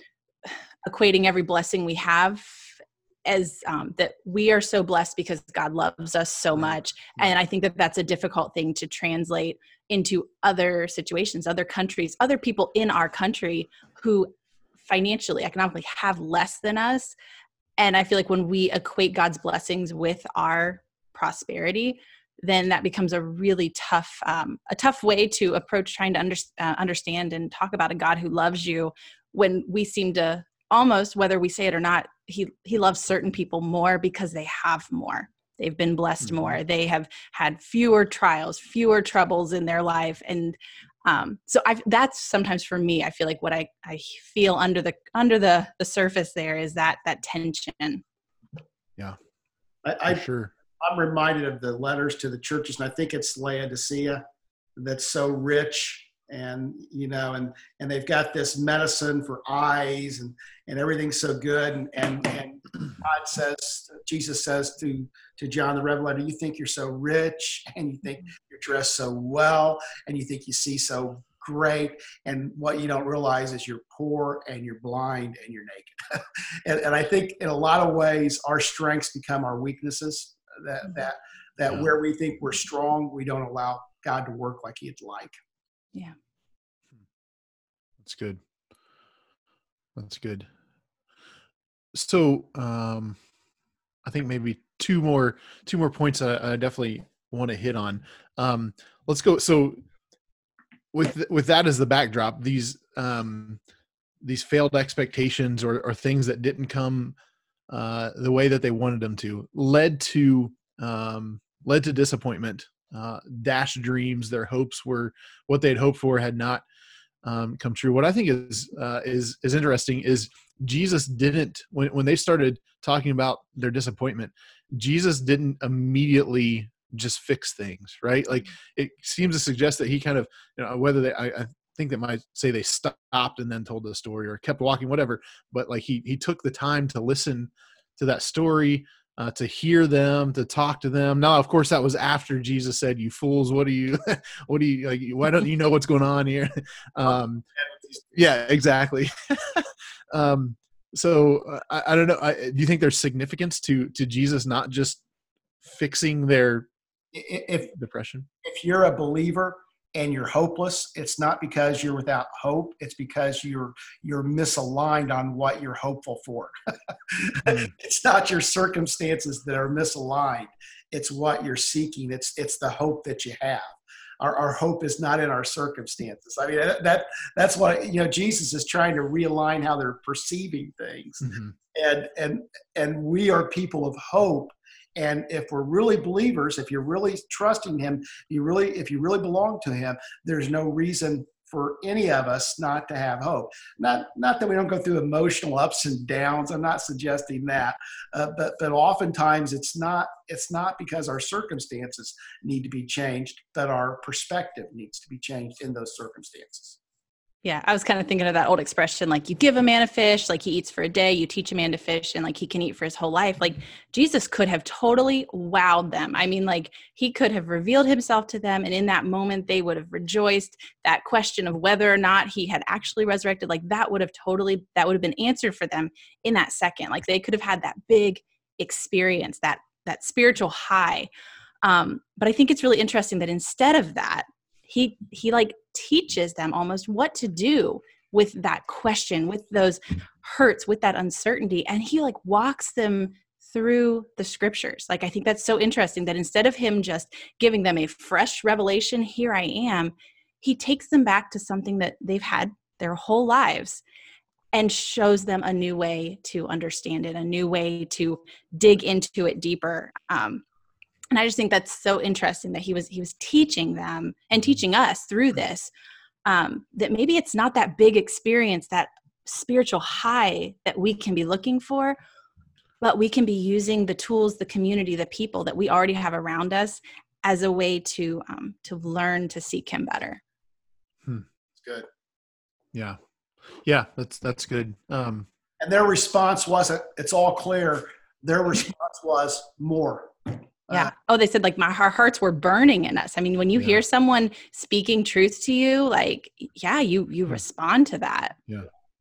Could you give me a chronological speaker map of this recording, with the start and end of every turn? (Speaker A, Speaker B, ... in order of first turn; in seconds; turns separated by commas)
Speaker A: 0.5-17.1, Speaker A: 17.8-48.0, Speaker B: 36.2-36.6, Speaker C: 49.8-50.2, Speaker B: 50.1-50.5, Speaker C: 50.8-54.2, Speaker C: 54.8-85.3, Speaker B: 88.0-88.4, Speaker B: 89.9-90.5, Speaker B: 91.9-93.2, Speaker B: 94.0-99.8, Speaker B: 100.9-103.6, Speaker B: 104.2-107.2, Speaker B: 107.7-116.6, Speaker B: 117.2-147.4, Speaker C: 147.6-148.1, Speaker B: 148.1-155.0, Speaker B: 155.6-156.7, Speaker C: 157.1-157.7, Speaker B: 157.7-158.3, Speaker C: 158.4-166.5, Speaker C: 167.1-206.8, Speaker B: 167.4-167.7, Speaker B: 181.2-181.5, Speaker A: 207.4-231.1, Speaker A: 231.6-253.8, Speaker A: 254.5-260.4, Speaker A: 261.1-265.7, Speaker A: 266.2-272.0, Speaker A: 272.8-280.2, Speaker B: 283.5-285.3, Speaker C: 285.6-290.1, Speaker A: 290.7-298.4